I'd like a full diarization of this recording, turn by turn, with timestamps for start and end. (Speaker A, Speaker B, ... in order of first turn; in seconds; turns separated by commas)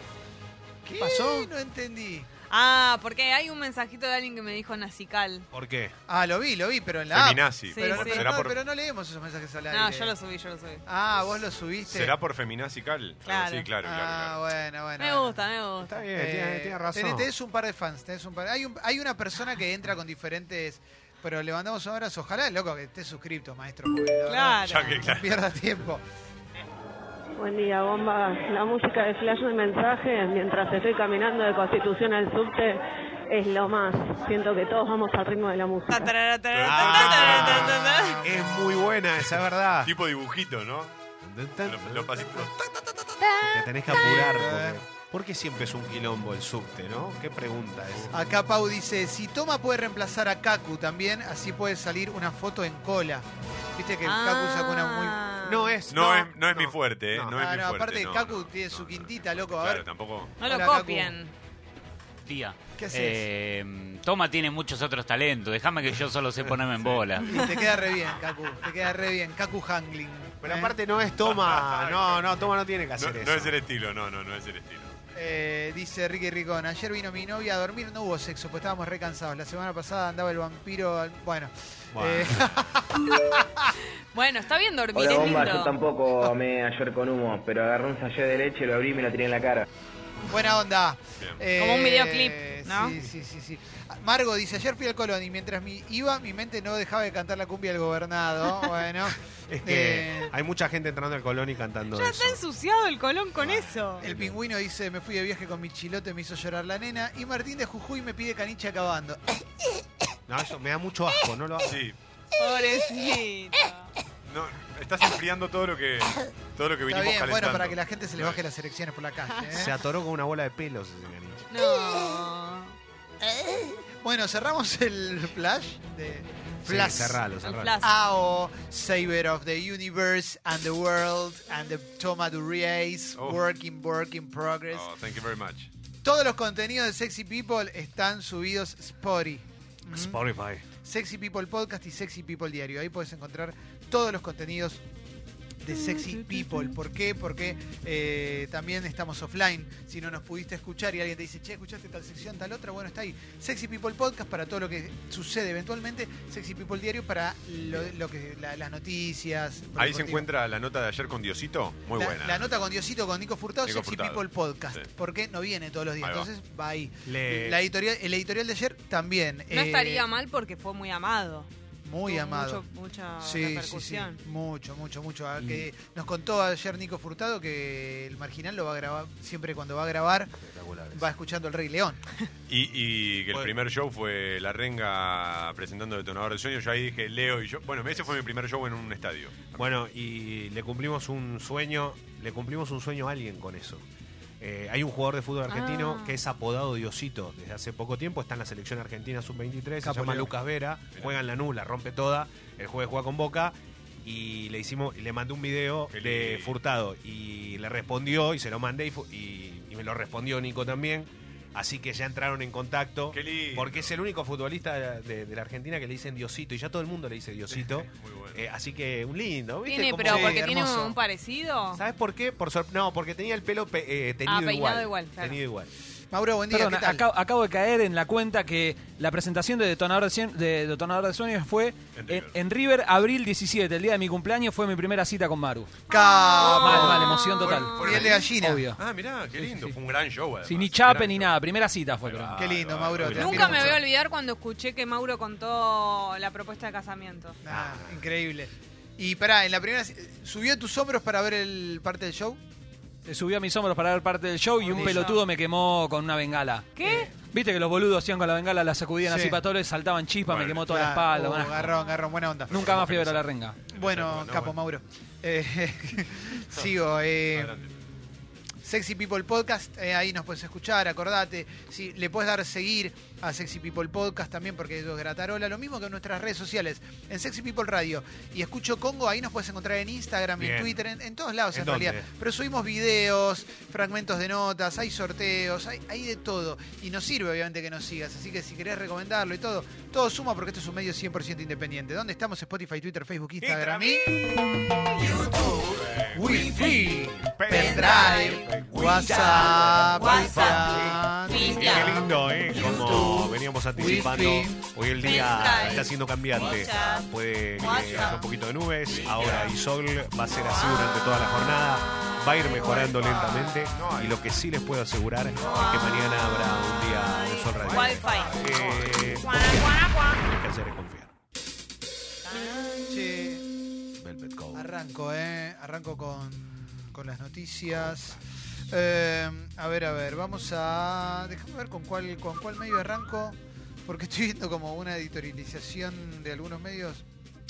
Speaker A: 0.8-2.3, Speaker B: 1.1-1.5, Speaker B: 2.5-5.5, Speaker C: 5.5-6.0, Speaker A: 6.1-10.1, Speaker D: 7.1-8.6, Speaker B: 7.7-8.2, Speaker B: 9.7-10.8, Speaker A: 10.8-12.1, Speaker D: 11.8-14.4, Speaker B: 13.2-13.7, Speaker A: 13.8-15.4, Speaker B: 15.0-16.0, Speaker C: 15.8-17.3, Speaker A: 16.1-26.0, Speaker B: 24.3-25.0, Speaker D: 24.6-25.4, Speaker E: 27.4-36.1, Speaker B: 35.9-38.2, Speaker D: 36.5-37.8, Speaker C: 36.6-39.9, Speaker D: 39.8-40.9, Speaker C: 41.2-42.4, Speaker D: 41.6-42.6, Speaker B: 43.2-43.5, Speaker C: 43.4-48.1, Speaker A: 43.9-44.8, Speaker A: 48.1-55.2, Speaker B: 54.0-56.1, Speaker C: 55.4-57.4, Speaker D: 55.9-60.3, Speaker A: 57.3-59.9, Speaker A: 60.4-61.1, Speaker B: 60.4-61.3, Speaker F: 62.2-67.2, Speaker A: 62.8-63.2, Speaker A: 67.2-70.7, Speaker C: 70.4-73.5, Speaker D: 71.2-72.3, Speaker D: 73.0-74.9, Speaker A: 75.1-83.7, Speaker C: 81.9-82.5, Speaker B: 84.1-85.7, Speaker G: 84.9-89.6, Speaker A: 90.3-100.3, Speaker B: 91.6-93.0, Speaker C: 99.5-102.4, Speaker B: 101.9-104.0, Speaker C: 103.4-104.4, Speaker A: 104.0-109.2, Speaker C: 110.3-111.8, Speaker D: 111.6-112.0, Speaker B: 112.4-113.9, Speaker D: 114.2-118.4, Speaker A: 116.9-119.7, Speaker C: 119.5-121.5, Speaker B: 121.5-122.8, Speaker A: 123.2-127.2, Speaker C: 126.6-127.8, Speaker B: 127.4-127.9, Speaker A: 127.8-134.9, Speaker D: 134.7-135.7, Speaker A: 136.0-140.2, Speaker C: 139.9-140.6, Speaker A: 140.8-144.8, Speaker A: 145.6-160.3, Speaker C: 157.7-157.9, Speaker D: 159.8-162.5, Speaker A: 161.9-170.0, Speaker D: 163.6-164.9, Speaker D: 166.0-166.3, Speaker C: 167.1-167.6, Speaker B: 169.5-171.5, Speaker A: 171.8-172.6, Speaker B: 172.1-174.2, Speaker A: 173.2-180.3, Speaker C: 175.4-175.7, Speaker C: 180.4-181.1, Speaker A: 180.9-182.0, Speaker D: 182.5-189.7, Speaker C: 189.6-193.8, Speaker C: 194.4-220.7, Speaker B: 195.5-196.2, Speaker A: 199.8-200.3, Speaker D: 205.9-206.6, Speaker D: 213.1-213.9, Speaker D: 217.5-218.4, Speaker B: 219.7-221.8, Speaker A: 220.1-220.9, Speaker C: 221.7-225.7, Speaker B: 224.2-225.4, Speaker A: 226.1-227.0, Speaker H: 226.5-235.8, Speaker D: 231.9-232.3, Speaker A: 235.9-238.6, Speaker B: 235.9-238.2, Speaker H: 236.5-238.8, Speaker D: 237.4-241.4, Speaker H: 240.4-242.4, Speaker D: 242.0-243.8, Speaker A: 242.3-243.8, Speaker C: 243.0-243.8, Speaker B: 243.1-247.4, Speaker A: 247.4-252.4, Speaker C: 247.5-248.0, Speaker H: 253.1-261.6, Speaker A: 254.7-255.1, Speaker B: 254.8-255.2, Speaker B: 256.8-257.1, Speaker A: 256.8-257.1, Speaker A: 259.0-259.4, Speaker D: 260.2-260.7, Speaker A: 260.7-262.6, Speaker B: 261.6-262.0, Speaker D: 262.5-264.6, Speaker H: 262.5-263.6, Speaker A: 263.7-294.0, Speaker D: 267.3-267.7, Speaker C: 280.4-280.8, Speaker C: 281.5-282.1, Speaker C: 293.4-294.2, Speaker C: 295.0-321.1, Speaker A: 296.1-301.9, Speaker B: 297.5-302.0, Speaker B: 302.5-303.1, Speaker A: 302.6-304.6, Speaker B: 305.0-308.2, Speaker D: 307.6-308.2, Speaker D: 308.9-309.5, Speaker B: 309.0-309.4, Speaker B: 310.6-310.9, Speaker D: 312.6-314.2, Speaker B: 315.4-318.3, Speaker D: 315.4-315.7, Speaker D: 317.6-319.0, Speaker B: 319.2-320.2, Speaker B: 322.2-322.9, Speaker A: 322.9-323.4, Speaker C: 324.0-324.7, Speaker A: 324.5-328.2, Speaker A: 328.7-337.1